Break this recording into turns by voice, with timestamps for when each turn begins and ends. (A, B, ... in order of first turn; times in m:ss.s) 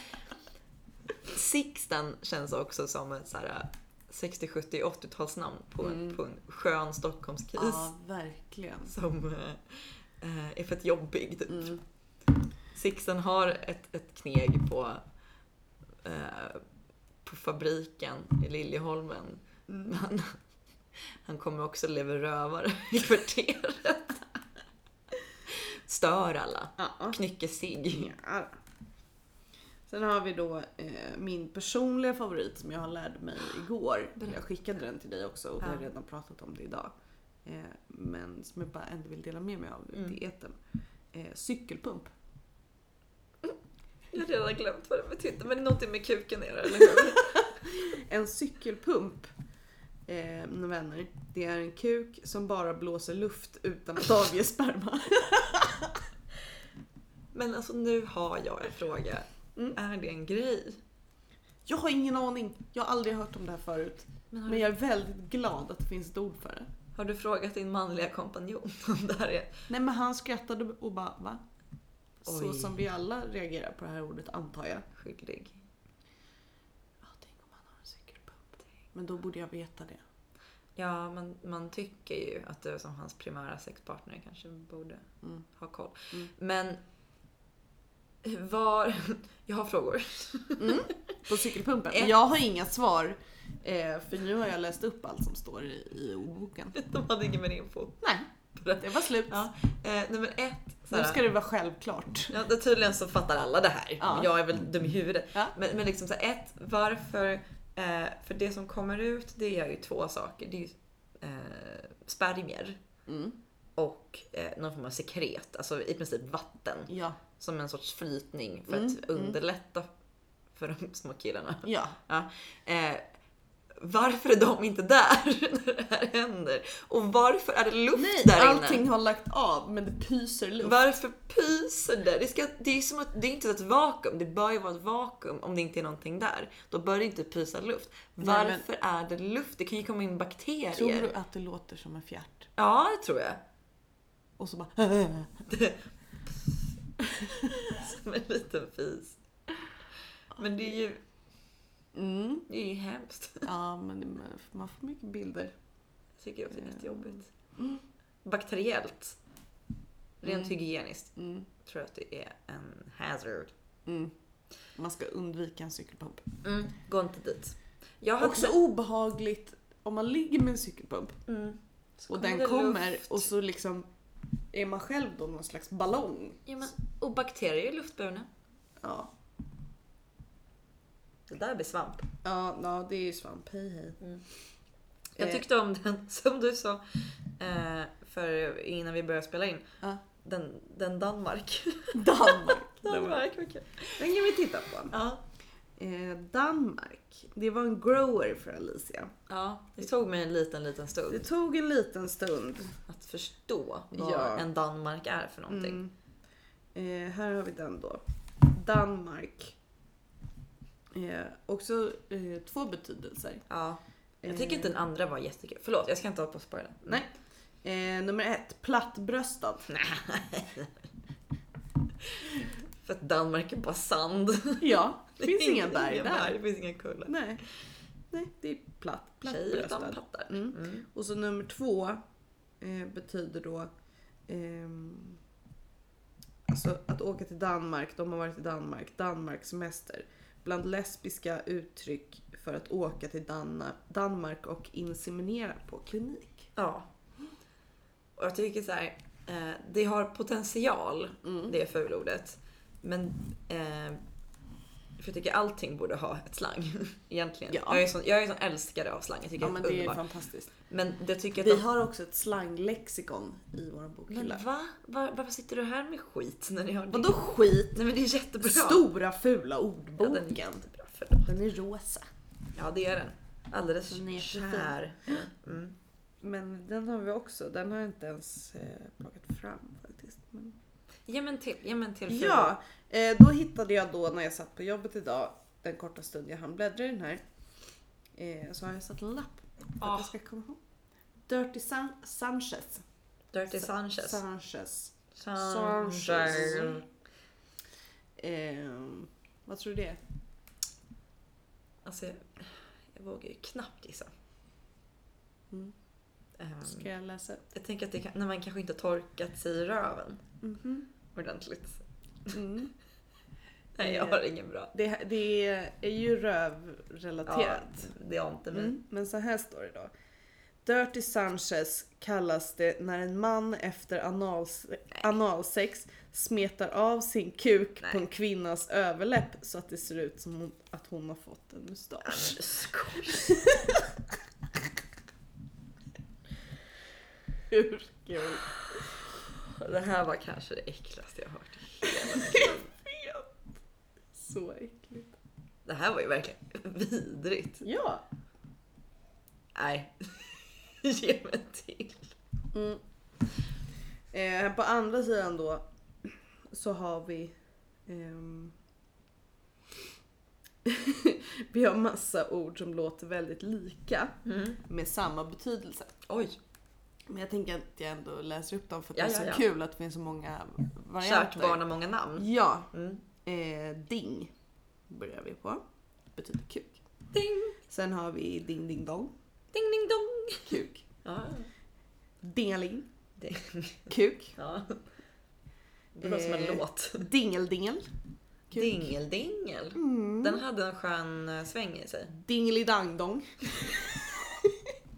0:01.3-0:07.9 A
0:05.8-0:06.2 B
0:07.6-0:08.9 B
0:08.9-0:11.8 A
0:11.5-0:11.8 B
0:12.7-0:15.0 A
0:16.0-0:16.6 A
0:17.2-0:20.4 A
0:21.2-0:24.2 A
0:25.5-0:28.1 A
0:26.8-0:27.2 B
0:27.9-0:28.6 B
0:29.9-0:36.9 B
0:35.6-0:35.9 A
0:37.4-0:40.6 B
0:41.1-0:42.1 B
0:44.1-0:47.5 A
0:47.0-0:49.3 B
0:50.1-0:56.0 B
0:57.3-1:00.8 A
1:01.7-1:06.7 B
1:04.3-1:04.6 A
1:07.0-1:09.6 A
1:09.7-1:11.4 B
1:12.2-1:14.9 B
1:12.3-1:12.8 A
1:14.9-1:15.6 A
1:17.0-1:20.0 B
1:20.8-1:26.8 A
1:28.2-1:31.0 A
1:30.6-1:36.8 B
1:36.7-1:41.2 A
1:38.8-1:39.5 B
1:40.9-1:42.3 B
1:42.3-1:52.8 A
1:44.0-1:44.4 B
1:53.1-1:53.4 B
1:53.8-1:59.9 A
1:56.9-1:57.2 B
1:58.7-1:59.4 B
2:00.5-2:03.1 A
2:01.6-2:02.0 B
2:03.8-2:08.8 A
2:08.0-2:10.8 B
2:10.6-2:21.1 A
2:18.2-2:18.6 B
2:20.7-2:22.5 B
2:22.6-2:23.4 A
2:24.4-2:25.5 B
2:25.5-2:26.7 A
2:27.4-2:29.2 A
2:30.4-2:31.0 A
2:32.0-2:32.4 B
2:32.5-2:33.5 A
2:33.4-2:35.5 B
2:36.2-2:37.3 A
2:36.5-2:37.8 B
2:38.2-2:39.2 A
2:40.2-2:43.5 A
2:40.2-2:40.5 B
2:41.2-2:41.5 B
2:43.9-2:44.1 B
2:44.8-2:46.2 B
2:46.4-2:48.6 A
2:48.2-2:51.2 B
2:51.3-2:53.3 A
2:52.1-2:53.9 B
2:54.5-2:56.4 B
2:56.5-2:58.3 A
2:58.8-2:59.1 B
3:01.3-3:02.1 A
3:02.2-3:04.0 B
3:05.2-3:06.8 A
3:05.2-3:05.4 B
3:07.4-3:14.0 A
3:11.9-3:13.2 B
3:14.0-3:14.9 B
3:14.9-3:15.2 A
3:15.8-3:19.1 B
3:19.3-3:21.2 A
3:21.1-3:22.8 B
3:22.9-3:25.8 A
3:23.9-3:24.5 B
3:25.5-3:25.9 B
3:26.8-3:29.6 B
3:30.9-3:33.4 B
3:33.5-3:37.0 A
3:34.2-3:34.7 B
3:37.6-3:39.7 B
3:39.7-3:40.7 A
3:42.8-3:47.2 A
3:44.6-3:46.4 B
3:47.1-3:47.4 B
3:48.1-3:52.0 B
3:49.2-3:50.8 A
3:52.6-3:53.7 B
3:54.3-3:55.2 B
3:56.5-4:06.5 B
4:06.6-4:06.9 A
4:08.2-4:14.0 A
4:11.2-4:11.5 B
4:15.0-4:20.0 A
4:17.5-4:17.9 B
4:19.4-4:20.5 B
4:20.7-4:21.6 A
4:21.4-4:24.4 B
4:24.1-4:28.8 A
4:26.9-4:27.8 B
4:28.4-4:30.7 B
4:30.0-4:31.3 A
4:31.2-4:32.0 B
4:32.5-4:35.8 A
4:33.9-4:35.3 B
4:36.2-4:40.6 B
4:41.1-4:42.5 A
4:42.1-4:47.2 B
4:48.2-4:50.6 B
4:49.8-4:50.1 A
4:51.3-4:52.8 B
4:53.3-4:54.2 A
4:53.5-4:56.8 B
4:55.2-4:56.8 A
4:58.2-5:00.0 B
5:01.8-5:04.1 A
5:06.4-5:06.9 A
5:06.7-5:07.4 B
5:07.5-5:10.2 A
5:10.4-5:10.9 B
5:11.2-5:12.4 A
5:12.3-5:12.7 B
5:13.8-5:14.7 A
5:13.8-5:17.9 B
5:17.2-5:18.8 A
5:18.5-5:19.9 B
5:20.6-5:32.4 B
5:32.0-5:33.4 A
5:33.3-5:33.8 B
5:37.5-5:38.5 B
5:39.5-5:42.7 A
5:41.8-5:43.3 B
5:44.1-5:45.1 B
5:45.7-5:47.6 A
5:47.6-5:48.0 B
5:49.6-5:52.1 A
5:52.5-5:52.8 B
5:54.1-5:57.4 B
5:57.9-5:58.6 B
6:00.6-6:05.9 B
6:04.2-6:04.6 A
6:06.1-6:06.4 A
6:07.1-6:11.6 B
6:09.0-6:09.4 A
6:11.0-6:13.0 A
6:12.2-6:12.7 B
6:13.2-6:14.3 B
6:14.9-6:15.6 B
6:16.2-6:16.8 B
6:17.1-6:17.6 A
6:17.7-6:19.1 B
6:19.5-6:21.5 A
6:20.5-6:20.8 B
6:22.2-6:22.9 B
6:23.2-6:24.8 A
6:23.9-6:24.4 B
6:26.0-6:27.1 A
6:26.0-6:27.9 B
6:28.5-6:28.9 B
6:28.5-6:32.1 A
6:29.8-6:30.4 B
6:32.1-6:34.7 B